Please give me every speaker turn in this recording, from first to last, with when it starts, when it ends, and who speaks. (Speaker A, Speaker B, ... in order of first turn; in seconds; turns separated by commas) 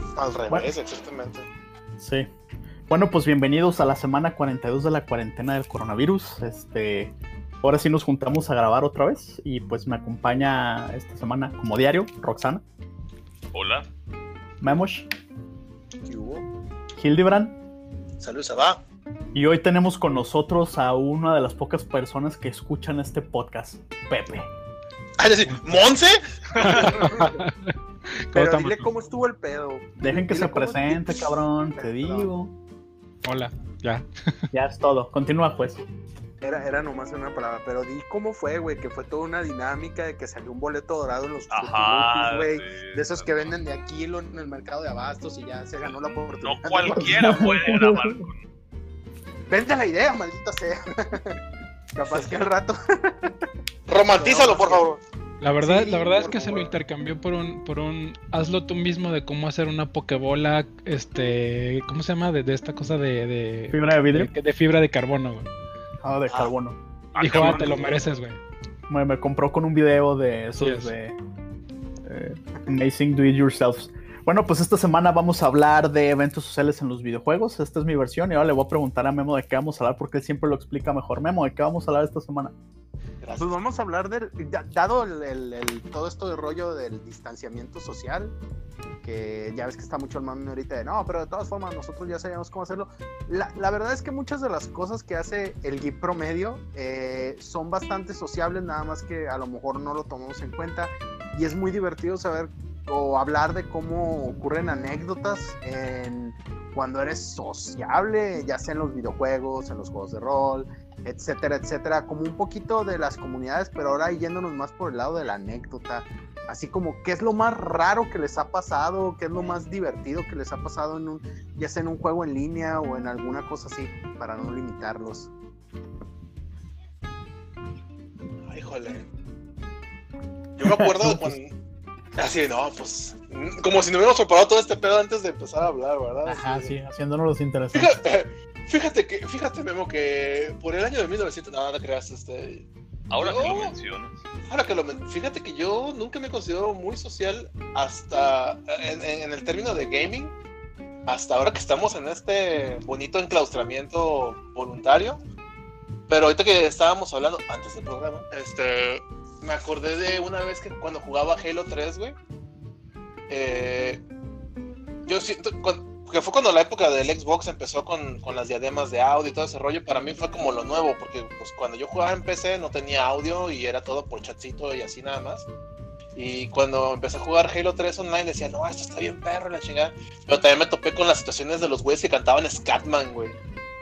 Speaker A: 0.2-1.5, Speaker B: 2.0-2.3, Speaker B: 2.9-12.6, Speaker C: 13.5-13.9, Speaker B: 14.6-15.1, Speaker D: 16.1-16.4, Speaker B: 17.0-17.6, Speaker A: 18.2-18.8, Speaker B: 19.3-24.5, Speaker A: 25.2-27.1, Speaker E: 26.6-27.7, Speaker D: 26.6-27.4, Speaker E: 28.3-28.9, Speaker D: 28.3-32.3, Speaker B: 30.0-32.5, Speaker E: 33.2-34.1, Speaker B: 34.5-35.8, Speaker D: 36.4-47.6, Speaker C: 41.5-43.6, Speaker C: 46.4-48.4, Speaker B: 47.0-48.2, Speaker D: 49.5-51.4, Speaker D: 52.0-53.3, Speaker A: 53.9-55.0, Speaker D: 54.1-54.9, Speaker E: 55.4-65.5, Speaker D: 55.6-56.8, Speaker B: 63.7-64.3, Speaker B: 66.0-66.8, Speaker C: 67.1-68.0, Speaker E: 67.2-68.4, Speaker B: 67.3-67.7, Speaker B: 68.9-71.1, Speaker E: 70.5-70.9, Speaker B: 72.0-82.5, Speaker A: 83.2-83.5, Speaker D: 83.4-88.3, Speaker D: 89.0-125.3, Speaker A: 128.4-129.1, Speaker A: 130.6-131.6, Speaker B: 130.7-131.4, Speaker A: 132.2-136.7, Speaker B: 136.3-137.9, Speaker A: 137.7-143.7, Speaker C: 143.1-144.2, Speaker A: 144.5-150.3, Speaker A: 151.1-155.2, Speaker A: 156.1-162.2, Speaker A: 163.3-164.0, Speaker A: 165.1-175.5, Speaker A: 176.2-183.4